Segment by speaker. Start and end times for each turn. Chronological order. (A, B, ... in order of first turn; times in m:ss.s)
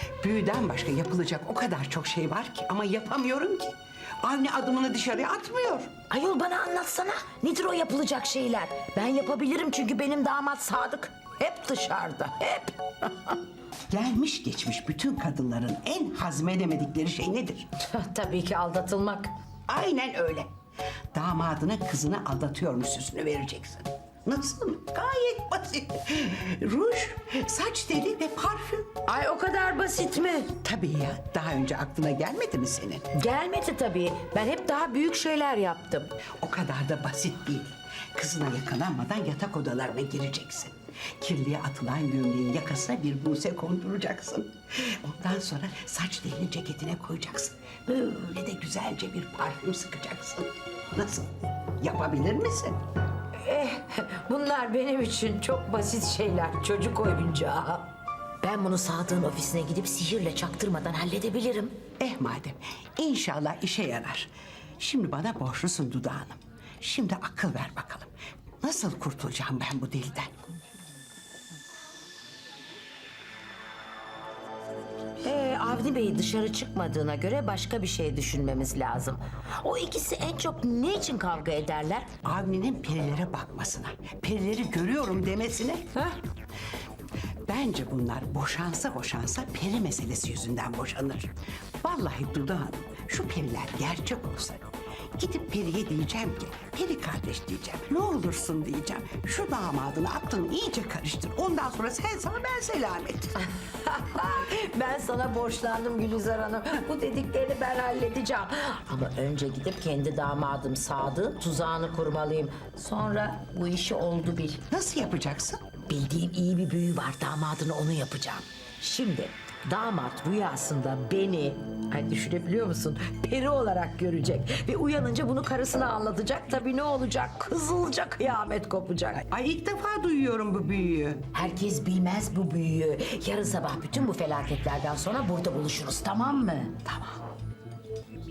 0:00.2-0:05.9 A
0:06.1-0:13.4 B
0:13.9-0:17.7 A
0:17.8-0:19.3 B
0:19.7-0:20.5 A
0:21.1-0:28.9 A
0:29.1-0:30.6 B
0:30.6-0:33.1 A
0:33.1-0:36.1 B
0:36.4-0:52.8 A
0:53.4-0:57.9 B
0:58.4-1:01.8 B
1:02.0-1:08.1 A
1:08.6-1:10.3 A
1:15.2-1:22.1 B
1:22.2-1:26.0 A
1:27.5-1:31.3 A
1:31.8-1:43.3 A
1:43.6-1:54.6 B
1:54.7-1:55.7 A
1:55.9-2:09.2 B
2:09.2-2:11.2 A
2:11.3-2:16.8 B
2:16.8-2:17.2 A